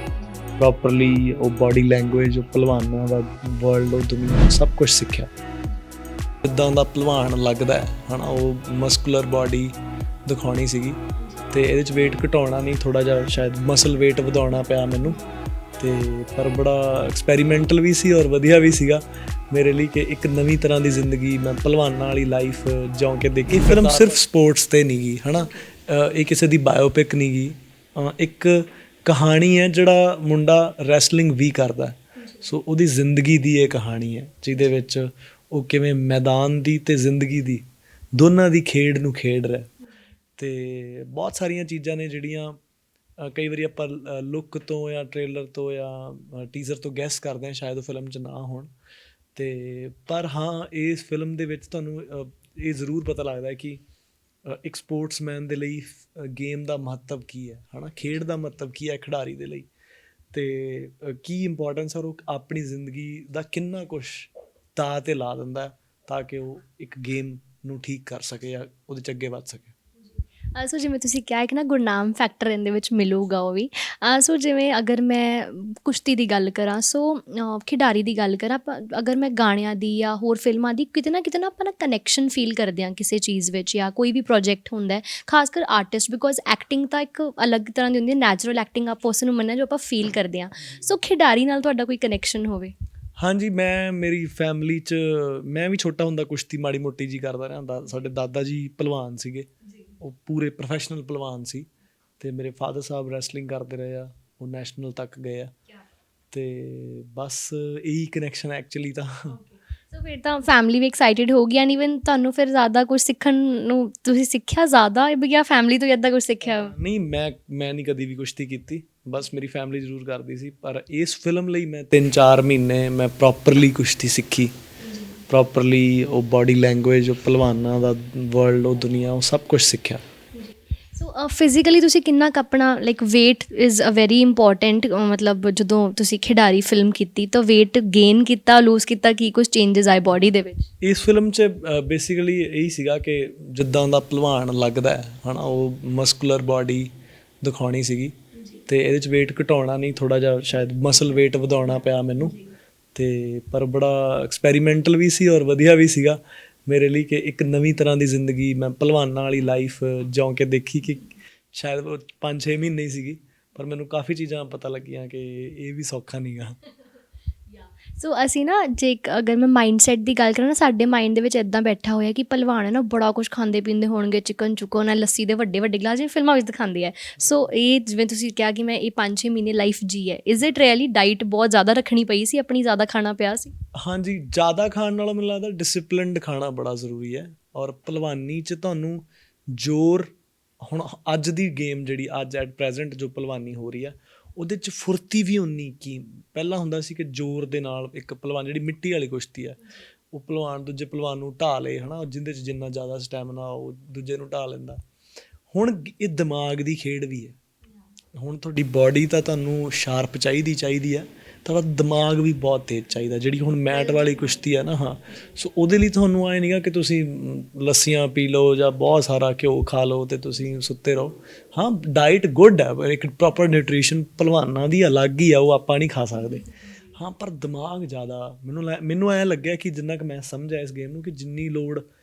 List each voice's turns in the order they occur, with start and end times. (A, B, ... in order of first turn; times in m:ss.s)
0:00.2-0:00.4 A
0:00.6-0:05.3 B
0:06.4-0:09.7 B
0:10.2-0:11.0 B
0:11.2-0:11.5 A
0:11.5-0:15.2 B
0:15.0-0:15.4 A
0:15.8-0:37.6 B
0:25.4-0:25.6 A
0:32.2-0:32.4 A
0:34.6-0:34.8 A
0:38.2-0:39.7 B
0:40.4-0:42.6 B
0:43.2-0:48.7 B
0:49.4-0:53.8 B
0:54.4-0:59.7 B
1:00.3-1:09.7 B
1:10.0-1:32.7 A
1:33.2-1:39.5 B
1:39.7-1:39.9 A
1:40.0-1:41.7 B
1:42.2-1:45.5 B
1:46.3-1:49.4 B
1:49.3-1:56.7 A
1:56.4-2:04.5 B
2:04.8-2:05.2 A
2:05.3-2:10.0 B
2:10.3-2:20.7 A
2:20.8-2:26.9 B
2:27.4-2:28.1 B
2:28.3-2:28.6 A
2:28.7-2:32.4 B
2:32.2-2:32.5 A
2:32.9-2:46.6 B
2:47.5-3:03.5 A
3:03.8-3:19.6 B
3:20.1-3:24.8 B
3:25.5-3:27.4 B
3:28.2-3:51.8 B
3:33.7-3:34.3 A
3:46.1-3:46.8 A